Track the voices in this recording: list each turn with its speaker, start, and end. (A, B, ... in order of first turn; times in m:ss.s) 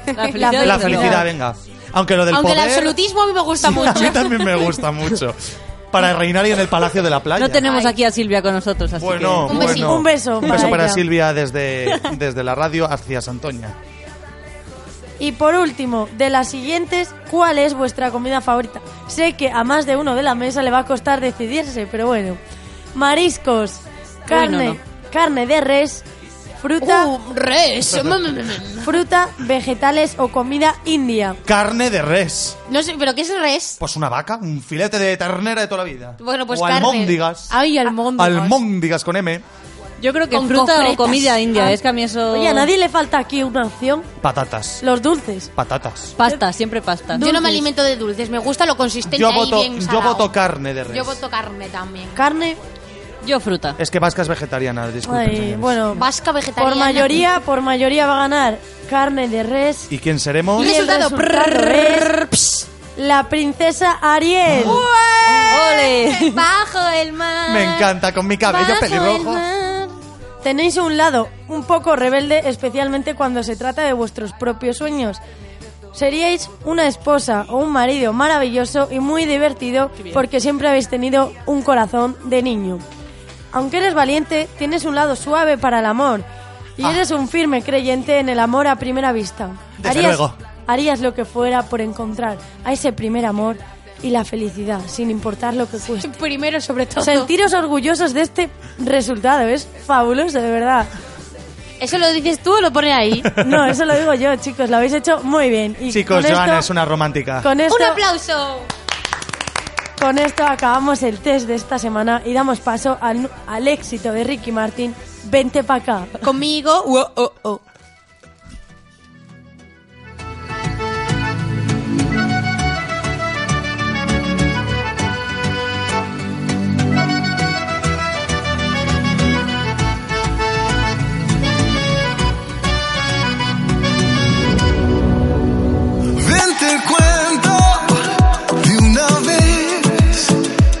0:00.1-0:01.2 A
0:00.2-0:00.5 B
0:00.4-0:01.2 C
0:00.6-0:03.0 D
0:02.3-0:04.7 B
0:03.6-0:07.7 D
0:07.4-0:09.8 A
0:07.6-0:08.0 B
0:09.0-0:13.8 D
0:09.5-0:09.9 B
0:09.6-0:11.0 C
0:15.2-0:22.4 C
0:22.9-0:26.0 C
0:24.3-0:24.8 A
0:26.6-0:27.1 C
0:26.8-0:29.0 B
0:28.8-0:31.4 C
0:31.4-0:32.6 D
0:32.7-0:33.8 B
0:33.8-0:37.6 D
0:36.2-0:38.6 B
0:38.1-0:39.4 D
0:40.0-0:42.7 A
0:40.3-0:41.7 B
0:42.3-0:44.1 C
0:44.2-0:44.8 D
0:44.8-0:45.5 C
0:45.6-0:46.2 D
0:46.2-0:47.3 A
0:47.1-0:47.7 C
0:47.2-0:50.3 B
0:49.0-0:51.2 D
0:50.9-0:52.2 B
0:52.2-0:52.6 C
0:53.2-0:53.8 A
0:53.8-0:55.8 D
0:55.0-0:56.0 C
0:55.9-0:57.2 B
0:56.6-0:59.9 C
0:59.9-1:00.7 D
1:00.6-1:02.1 C
1:00.6-1:02.7 B
1:03.0-1:04.8 C
1:04.5-1:07.9 B
1:05.5-1:06.4 A
1:07.5-1:09.4 D
1:08.4-1:10.0 B
1:10.4-1:15.2 C
1:15.9-1:22.8 C
1:23.5-1:26.2 C
1:26.8-1:36.1 C
1:29.8-1:30.4 D
1:35.9-1:37.3 B
1:37.0-1:40.9 C
1:41.8-1:43.3 B
1:43.4-1:46.7 C
1:43.4-1:43.7 D
1:45.9-1:47.5 D
1:47.4-1:48.0 C
1:47.7-1:48.7 B
1:50.0-1:56.2 C
1:56.2-1:57.6 B
2:16.2-2:20.4 E